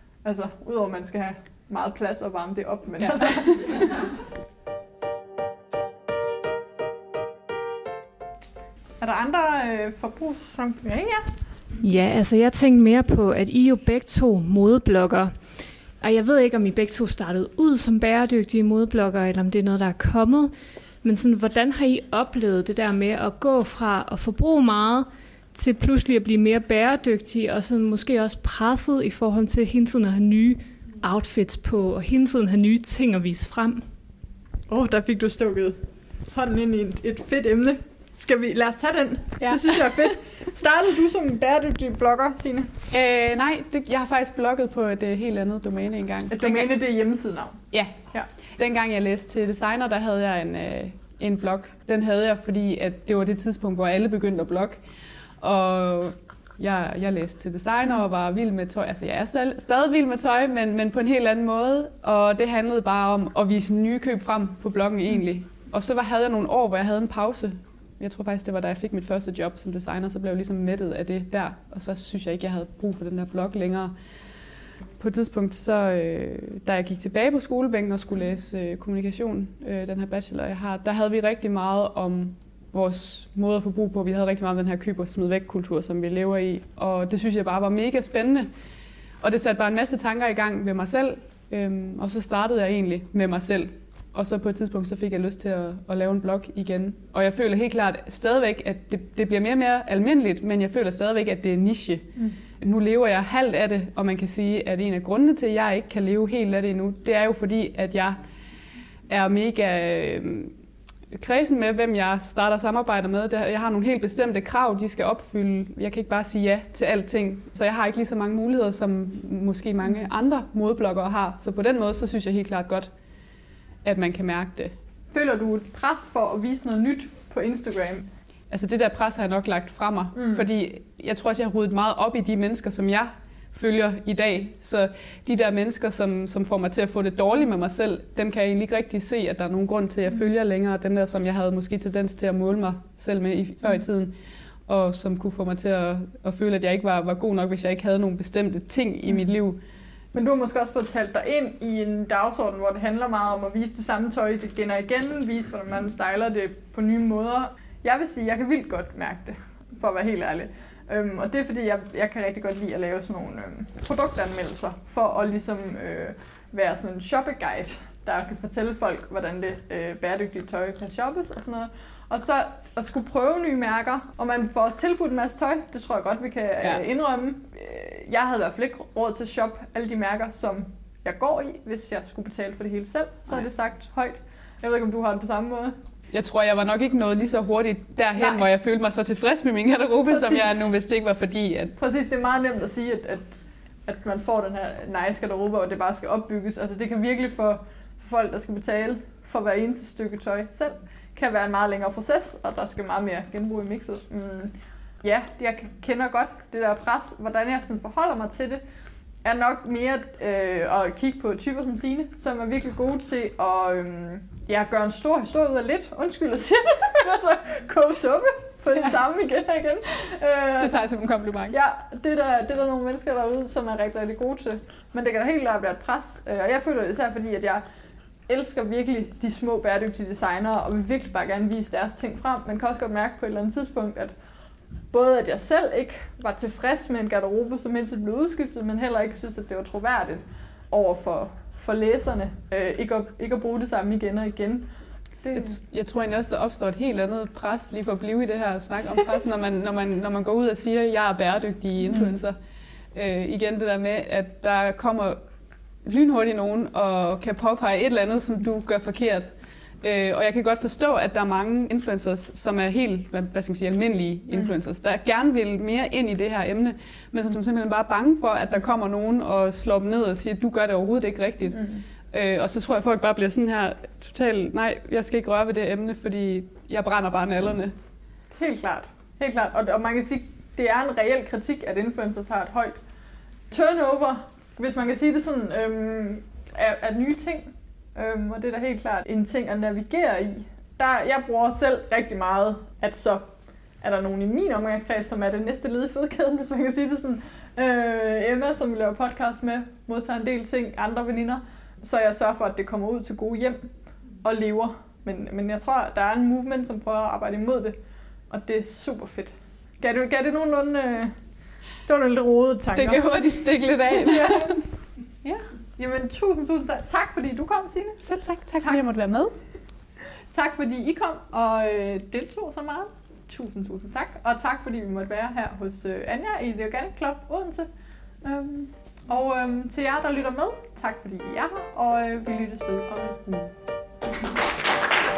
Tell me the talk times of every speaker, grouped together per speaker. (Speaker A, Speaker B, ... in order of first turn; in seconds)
Speaker A: 0.2-4.0, 9.0-11.3, 34.7-42.7, 46.3-47.6, 125.1-128.1, 130.2-130.4, 150.1-185.8, 188.2-188.5, 190.1-190.7, 191.8-193.3, 193.8-208.6, 209.2-220.8, 221.5-227.6, 228.3-234.1, 234.9-244.7, 245.2-245.6, 251.8-252.1, 278.3-282.8, 283.5-307.8, 308.3-311.1, 311.9-313.2, 313.9-314.6, 315.2-318.8, 320.3-327.7, 328.2-333.5
Speaker B: 3.1-3.8, 39.4-40.1, 42.9-46.8, 47.7-48.0, 48.6-54.8, 55.4-73.9, 75.0-88.5, 89.2-108.2, 109.1-110.5, 111.1-122.9, 123.8-124.7, 128.5-144.1, 144.7-149.6, 186.1-191.8, 220.6-221.6, 245.3-252.3, 252.9-255.2, 255.8-259.3, 259.8-277.7, 312.7-314.6, 318.1-319.3
Speaker C: 11.8-15.4, 16.0-33.9